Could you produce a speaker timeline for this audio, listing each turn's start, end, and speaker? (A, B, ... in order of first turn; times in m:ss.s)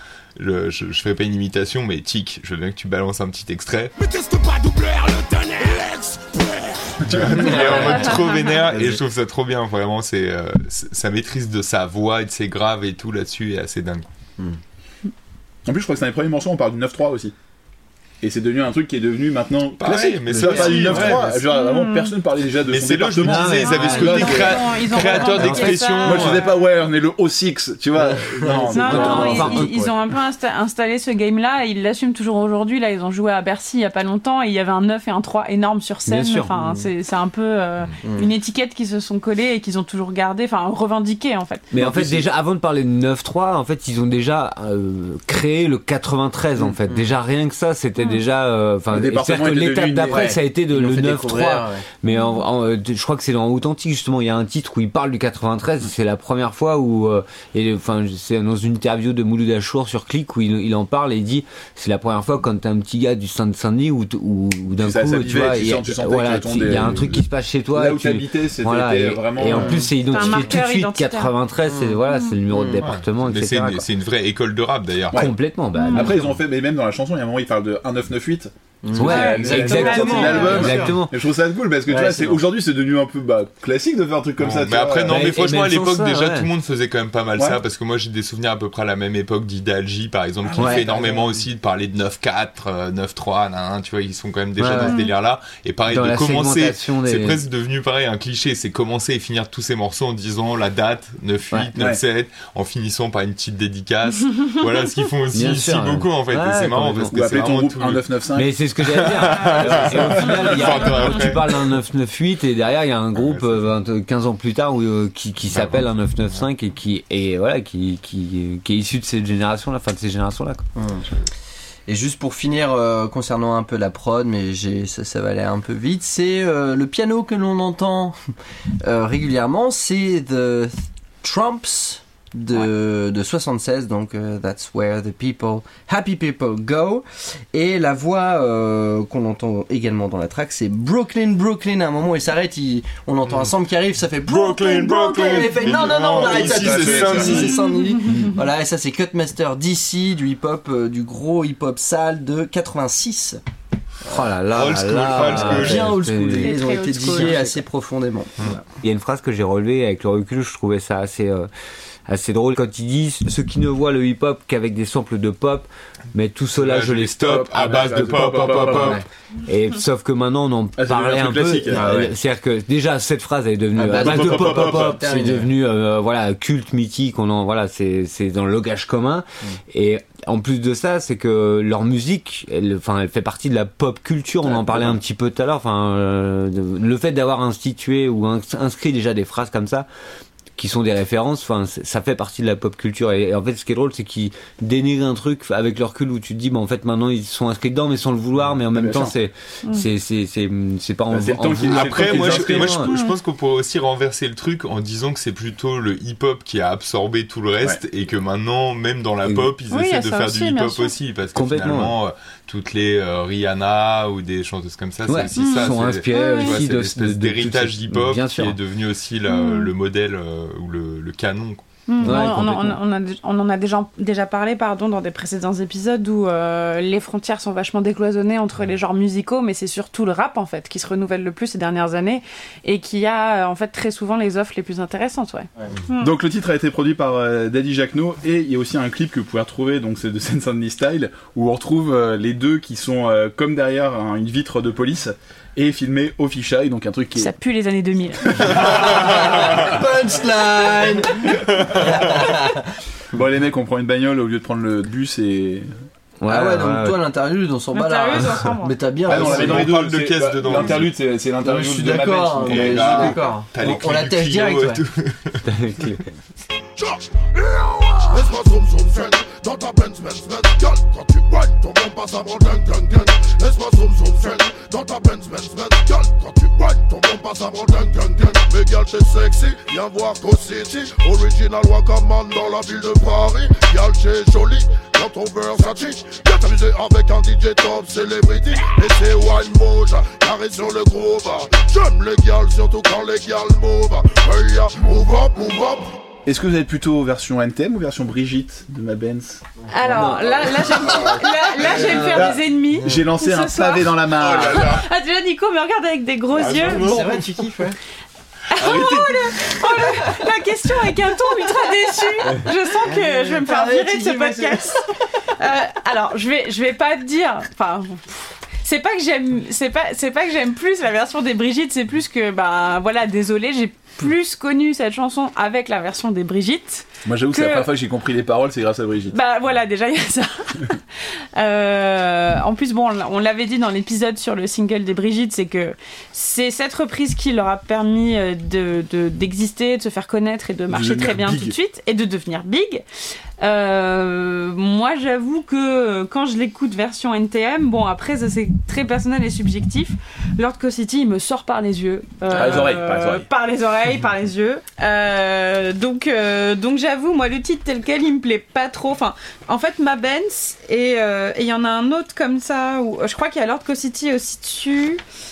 0:00.4-0:03.9 A
0:04.0-0:08.1 B
0:07.0-0:08.0 C
0:07.1-0:14.0 A
0:07.9-0:08.4 D
0:15.6-0:17.3 C
0:18.2-0:24.1 C
0:19.8-0:21.4 A
0:20.3-0:21.1 E
0:21.4-0:22.1 D
0:22.7-0:26.4 A
0:23.2-0:24.5 F
0:23.6-0:26.6 D
0:25.4-0:25.7 F
0:26.0-0:29.7 C
0:28.1-0:29.7 E
0:28.7-0:41.7 D
0:28.8-0:29.9 F
0:36.1-0:36.5 F
0:36.5-0:36.9 E
0:38.0-0:38.3 E
0:41.7-1:13.8 F
0:41.7-0:42.2 C
0:46.6-0:47.1 E
0:48.9-0:50.4 C
0:50.1-0:51.9 E
0:52.1-0:52.4 D
1:04.8-1:09.9 C
1:09.5-1:10.6 E
1:10.0-1:11.3 D
1:11.7-1:12.0 E
1:12.5-1:12.8 E
1:12.8-1:15.3 A
1:15.1-1:16.1 F
1:15.8-1:16.1 D
1:15.9-1:25.3 C
1:18.8-1:20.9 E
1:19.0-1:21.1 F
1:19.0-1:21.0 D
1:21.9-1:22.4 E
1:24.4-1:48.0 A
1:25.1-1:26.5 F
1:30.6-1:30.9 F
1:30.6-1:31.0 C
1:30.6-1:31.2 E
1:34.6-1:35.0 F
1:34.8-1:35.1 D
1:35.9-1:37.4 F
1:45.3-1:47.1 F
1:47.1-1:48.6 C
1:48.4-2:00.6 F
1:49.1-1:51.6 A
1:49.3-1:49.7 D
1:49.6-1:50.6 C
1:53.2-1:53.6 A
1:55.5-1:56.4 A
2:00.8-2:01.0 E
2:01.9-2:08.2 E
2:08.8-2:33.4 E
2:24.3-2:27.6 A
2:25.9-2:27.5 C
2:28.0-2:28.2 D
2:34.1-2:37.6 F
2:34.5-2:35.9 A
2:34.9-2:38.6 E
2:36.4-2:37.4 D
2:38.8-2:41.5 F
2:42.1-3:09.9 F
2:46.6-2:49.0 A
2:47.2-2:49.0 C
2:50.8-2:51.9 C
2:51.7-2:52.1 E
2:53.8-2:55.0 C
2:53.8-2:55.5 E
3:04.4-3:05.0 E
3:10.6-3:22.9 F
3:18.5-3:19.1 C
3:21.1-3:22.8 C
3:21.4-3:41.6 A
3:22.9-3:23.1 D
3:29.7-3:30.9 D
3:31.3-3:31.9 F
3:35.1-3:38.6 F
3:35.4-3:36.6 D
3:39.3-3:39.7 D
3:41.9-3:56.1 D
3:42.0-3:42.8 F
3:56.0-4:07.3 C
4:07.2-4:08.5 D
4:08.3-4:09.1 C
4:08.5-4:12.6 E
4:13.1-4:15.7 C
4:16.2-4:17.0 F
4:16.3-4:19.7 E
4:17.7-4:18.8 D
4:19.0-4:23.2 C
4:19.1-4:20.9 A
4:21.4-4:24.8 E
4:22.4-4:25.4 A
4:25.4-4:26.1 F
4:26.8-4:56.0 G
4:56.2-4:59.4 C
4:59.7-5:07.2 D
4:59.9-5:00.2 F
5:01.8-5:02.2 E
5:02.0-5:04.8 C
5:06.4-5:07.0 A
5:06.5-5:07.8 E
5:08.5-5:14.9 D
5:08.6-5:08.9 A
5:12.3-5:14.9 E
5:15.4-5:27.7 D
5:27.0-5:29.1 C
5:29.1-5:30.8 D
5:31.4-5:42.8 D
5:40.7-5:41.5 C
5:43.4-6:05.0 D
5:52.3-5:53.3 C
5:52.3-5:52.7 E